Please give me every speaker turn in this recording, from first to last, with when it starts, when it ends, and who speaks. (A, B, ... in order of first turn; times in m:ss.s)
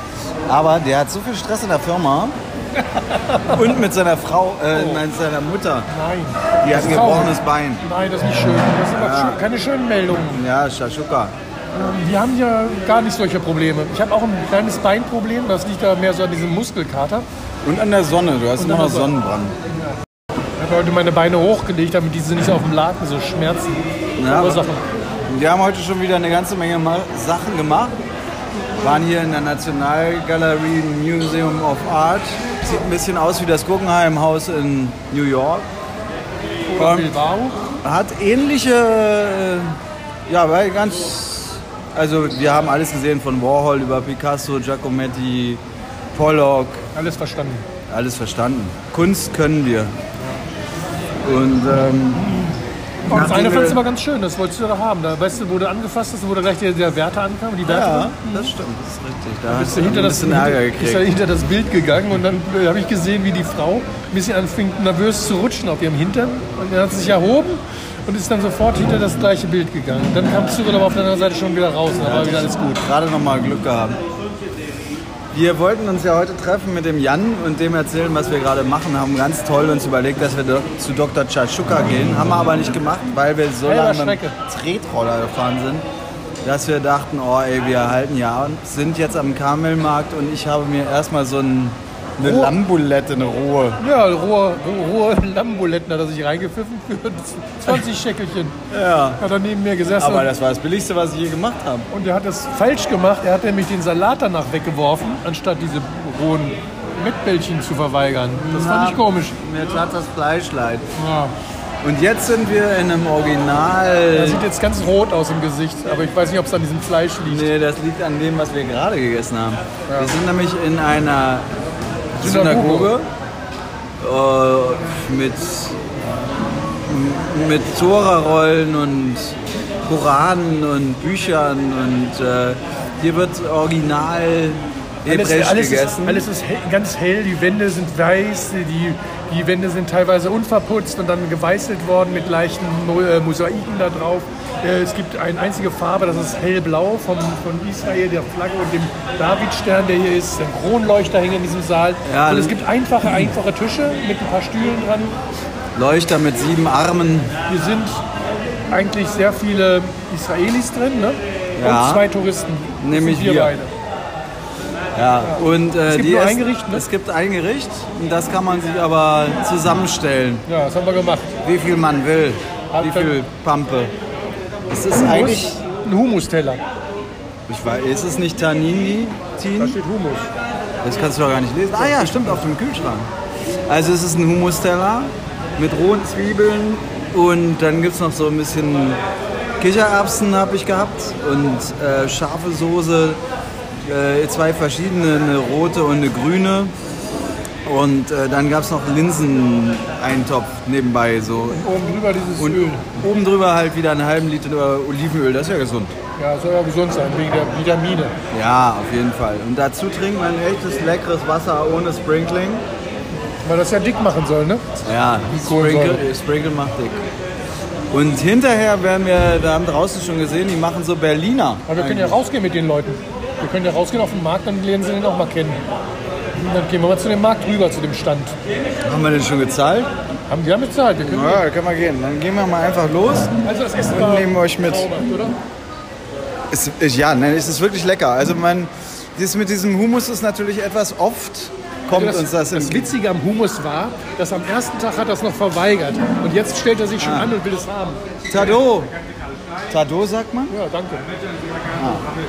0:00.5-0:02.3 A
0:03.1-0:03.6 B
0:03.4-0:05.9 A
0:04.7-0:05.0 B
0:05.9-0:10.4 B
0:06.6-0:07.8 A
0:08.9-0:09.4 A
0:10.3-0:11.3 A
0:11.7-0:17.2 B
0:17.6-0:19.5 A
0:18.6-0:19.1 B
0:20.6-0:24.8 B
0:24.2-0:24.6 A
0:25.3-0:27.9 A
0:28.8-0:35.6 A
0:36.7-0:37.6 B
0:36.8-0:37.1 A
0:37.8-0:39.8 A
0:40.3-0:45.6 A
0:46.1-0:46.8 A
0:46.9-0:47.6 B
0:47.9-0:49.9 A
0:51.2-0:52.4 A
0:53.1-0:58.5 B
0:53.1-0:53.8 A
0:57.6-1:01.1 A
0:59.5-1:12.8 B
1:12.0-1:14.0 A
1:15.3-1:25.8 A
1:23.6-1:24.4 B
1:26.4-1:33.8 A
1:32.2-1:32.5 B
1:33.8-1:38.6 B
1:38.7-1:39.2 A
1:39.2-1:40.3 B
1:40.0-1:41.9 A
1:41.9-1:49.4 B
1:48.4-1:50.8 A
1:51.0-1:51.3 B
1:51.8-1:54.4 A
1:54.1-1:57.5 B
1:57.2-2:01.4 A
1:59.9-2:00.1 B
2:02.2-2:03.1 A
2:02.2-2:02.9 B
2:04.0-2:05.8 A
2:06.8-2:16.3 A
2:15.1-2:35.1 B
2:32.0-2:32.6 A
2:35.8-2:37.3 A
2:37.5-2:38.0 B
2:38.7-2:43.7 B
2:41.6-2:42.1 A
2:42.8-2:43.5 A
2:44.9-2:50.4 A
2:45.2-2:46.8 B
2:50.5-2:51.3 B
2:51.4-2:53.9 A
2:52.7-2:53.2 B
2:54.7-2:55.6 A
2:54.9-2:56.6 B
2:57.5-2:59.8 A
2:59.6-3:00.3 B
3:00.8-3:03.1 A
3:01.8-3:02.4 B
3:03.7-3:09.0 A
3:09.6-3:13.2 A
3:13.8-3:16.7 A
3:17.6-3:21.6 A
3:21.5-3:22.9 B
3:22.4-3:25.9 A
3:26.2-3:28.1 B
3:28.3-3:32.6 A
3:33.4-3:34.7 B
3:34.8-3:37.0 A
3:35.3-3:36.0 B
3:37.9-3:42.2 A
3:41.7-3:45.6 B
3:46.4-3:48.3 B
3:48.8-3:49.9 A
3:50.3-3:51.4 B
3:51.0-3:54.9 A
3:53.4-3:55.4 B
3:56.5-4:02.9 A
4:01.9-4:08.0 B
4:07.0-4:07.3 A
4:08.3-4:08.9 A
4:09.7-4:10.5 A
4:10.5-4:11.1 B
4:11.7-4:12.0 A